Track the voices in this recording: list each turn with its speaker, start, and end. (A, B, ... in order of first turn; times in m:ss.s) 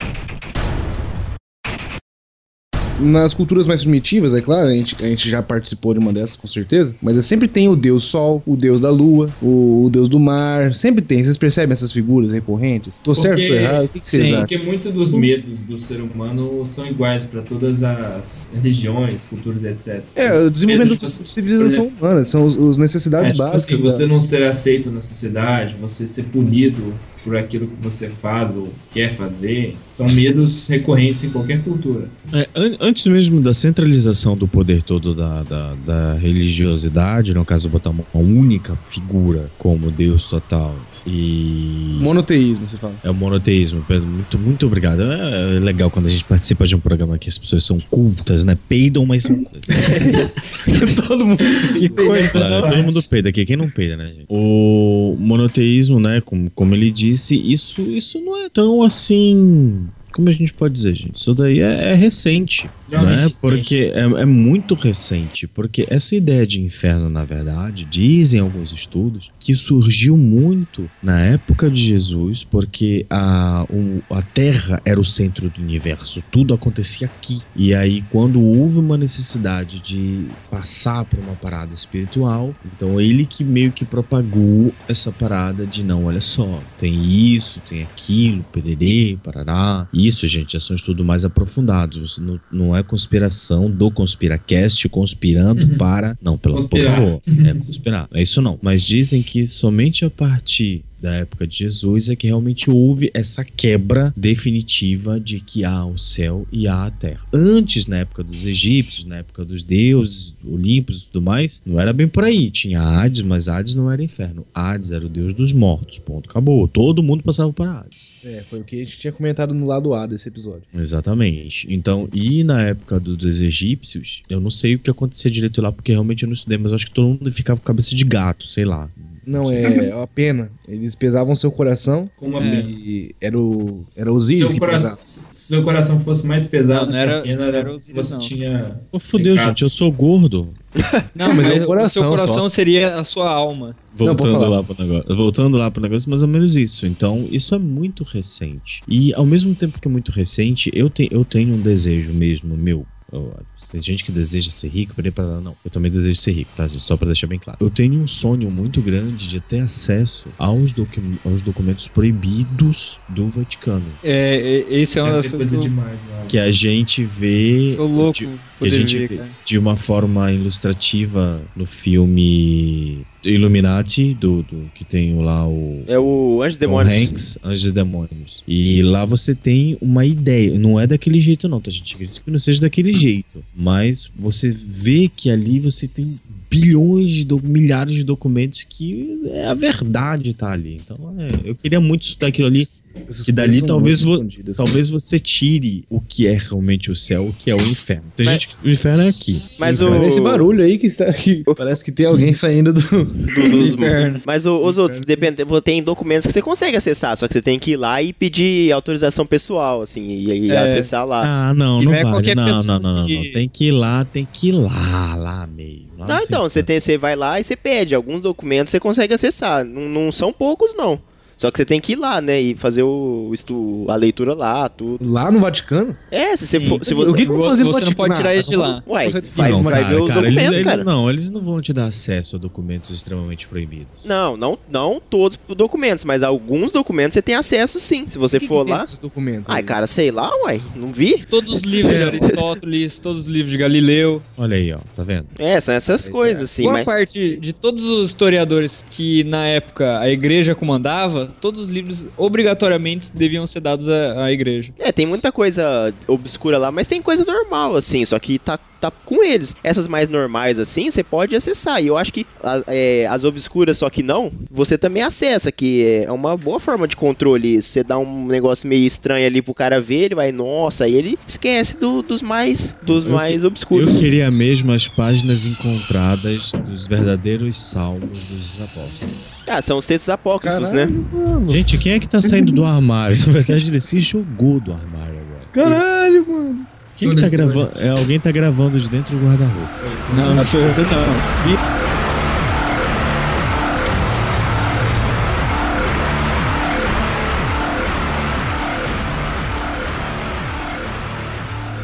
0:03.0-0:14.5 A
0:13.1-0:21.9 B
0:20.2-0:24.1 A
0:23.2-0:32.1 B
0:32.3-0:42.1 C
0:42.0-0:43.0 A
0:43.0-0:50.0 C
0:49.8-0:51.8 A
0:51.5-0:53.1 B
0:51.7-0:52.8 D
0:52.3-1:58.1 C
1:02.8-1:03.9 B
1:35.6-1:35.8 B
1:36.5-1:37.7 B
1:58.2-2:00.7 A
2:00.7-2:09.7 C
2:09.3-2:15.0 A
2:12.2-2:12.8 B
2:12.4-2:12.7 D
2:14.3-2:19.8 B
2:16.7-2:18.3 D
2:18.9-2:20.6 C
2:21.2-2:23.9 D
2:21.3-2:22.4 A
2:23.9-2:44.0 C
2:24.0-2:24.6 A
2:44.0-2:45.7 D
2:45.0-2:46.4 B
2:46.3-2:55.9 C
2:47.7-2:49.4 D
2:55.9-2:57.2 E
2:56.6-3:20.1 C
3:13.1-3:14.8 A
3:19.6-3:20.4 E
3:19.6-3:23.8 A
3:23.3-3:31.3 E
3:23.5-3:24.3 D
3:24.6-3:25.3 A
3:30.5-3:30.9 D
3:31.2-3:36.7 C
3:31.8-3:33.4 D
3:36.1-3:45.0 E
3:45.0-3:46.0 A
3:46.1-3:47.2 E
3:46.5-3:48.8 D
3:46.9-3:50.8 A
3:48.8-3:50.9 E
3:49.4-3:54.1 C
3:54.0-3:58.9 E
3:58.3-3:59.8 A
3:59.5-4:02.4 E
4:01.3-4:04.2 D
4:01.8-4:02.3 C
4:04.4-4:05.3 C
4:05.4-4:07.0 E
4:06.0-4:06.5 A
4:06.6-4:14.7 D
4:14.8-4:34.0 E
4:33.0-4:39.1 C
4:39.5-4:40.9 E
4:40.4-4:41.7 A
4:41.5-4:45.6 C
4:45.5-4:46.7 A
4:47.0-4:49.8 C
4:47.0-4:47.8 B
4:49.8-4:50.8 B
4:50.1-4:51.5 D
4:50.3-4:50.5 C